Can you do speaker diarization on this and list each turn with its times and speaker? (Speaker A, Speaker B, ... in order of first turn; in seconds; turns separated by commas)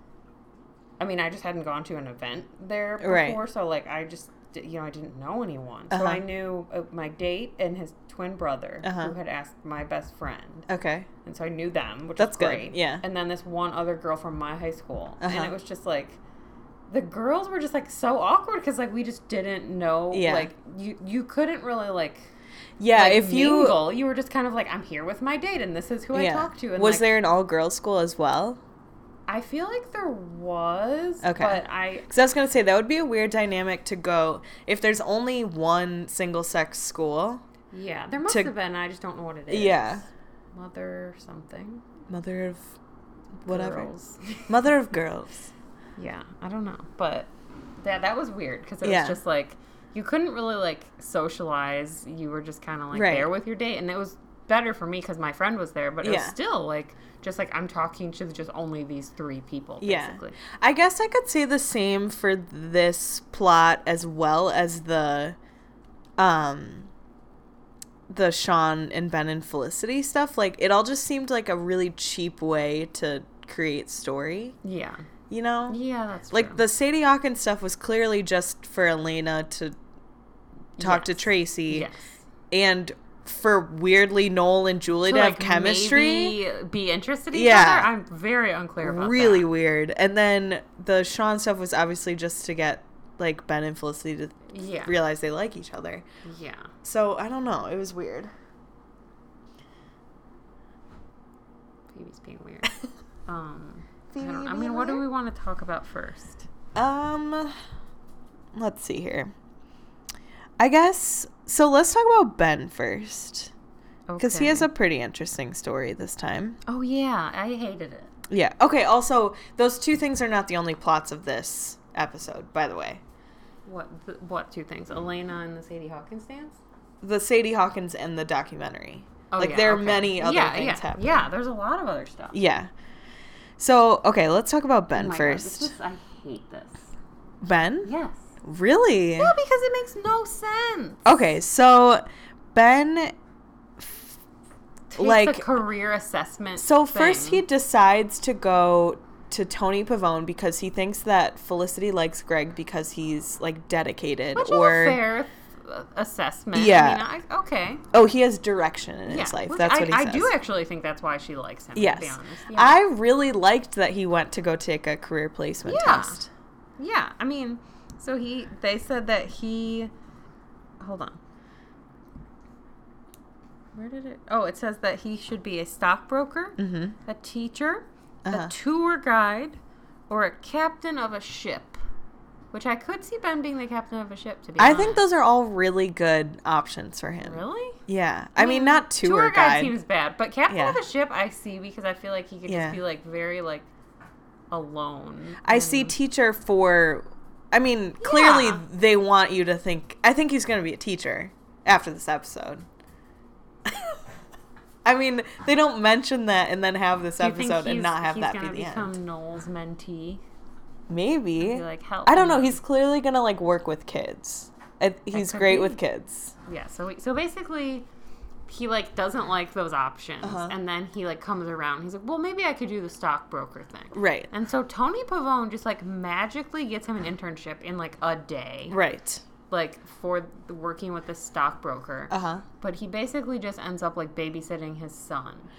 Speaker A: 1.0-10.7, Speaker B: 3.0-3.4, Speaker B: 5.9-6.2, Speaker B: 8.8-9.2, Speaker B: 10.7-11.1, Speaker A: 11.2-16.2, Speaker B: 12.2-13.0, Speaker B: 15.2-15.5, Speaker A: 16.9-22.3, Speaker B: 20.1-20.5, Speaker B: 22.8-23.8, Speaker A: 23.0-27.1, Speaker B: 26.1-28.6, Speaker A: 29.3-32.1, Speaker B: 31.2-37.5, Speaker A: 37.7-41.9, Speaker B: 38.3-38.5, Speaker B: 39.5-40.1, Speaker B: 42.1-42.8, Speaker B: 43.4-43.9, Speaker A: 43.5-44.5, Speaker B: 44.5-45.5, Speaker A: 46.0-60.4, Speaker B: 48.8-49.2, Speaker B: 52.9-53.3, Speaker B: 56.0-56.4, Speaker B: 59.8-65.4, Speaker B: 66.2-66.9, Speaker B: 68.1-74.6, Speaker A: 74.6-75.1, Speaker B: 75.3-75.8, Speaker A: 75.7-76.6, Speaker B: 76.3-79.8, Speaker A: 80.8-82.2, Speaker B: 80.8-81.9, Speaker B: 82.5-86.4, Speaker A: 85.0-89.5, Speaker B: 87.3-87.9, Speaker B: 88.8-96.0, Speaker A: 94.5-95.0, Speaker A: 96.2-96.7, Speaker B: 96.8-98.3, Speaker A: 101.9-106.5, Speaker B: 104.1-105.0, Speaker B: 106.8-107.5, Speaker B: 108.5-109.3, Speaker B: 110.6-113.5, Speaker A: 114.1-114.7, Speaker B: 114.2-116.6, Speaker A: 116.7-118.1, Speaker B: 118.3-123.0, Speaker A: 123.7-126.6, Speaker B: 127.0-131.3, Speaker A: 129.3-132.4, Speaker B: 132.3-132.7, Speaker B: 133.6-135.7, Speaker A: 134.9-136.9, Speaker B: 137.4-137.9, Speaker A: 137.8-138.3, Speaker B: 138.4-139.3, Speaker A: 139.2-141.1, Speaker B: 141.1-143.1, Speaker B: 143.8-144.1, Speaker A: 144.9-147.4, Speaker B: 145.0-145.5, Speaker B: 146.6-155.0, Speaker A: 154.3-157.8, Speaker B: 156.5-157.1, Speaker B: 157.9-160.3, Speaker A: 159.1-162.8, Speaker B: 161.8-166.3, Speaker A: 165.7-166.2, Speaker A: 166.8-169.9, Speaker A: 170.8-171.2, Speaker A: 173.8-181.8, Speaker B: 176.6-177.0, Speaker B: 178.2-178.5, Speaker A: 182.5-185.0, Speaker B: 184.6-189.7, Speaker A: 187.2-187.8, Speaker A: 188.4-193.7, Speaker B: 190.5-190.8, Speaker B: 192.5-192.8, Speaker A: 194.5-196.0, Speaker B: 195.4-202.7, Speaker A: 198.0-198.6, Speaker B: 203.7-204.0, Speaker B: 204.8-208.9, Speaker A: 207.2-210.2, Speaker B: 210.9-216.3, Speaker A: 211.4-212.6, Speaker A: 215.1-215.8, Speaker A: 216.5-217.9, Speaker A: 218.5-228.8, Speaker B: 220.2-220.6, Speaker B: 223.9-224.3, Speaker B: 228.7-229.2, Speaker A: 229.5-235.5, Speaker B: 232.1-232.4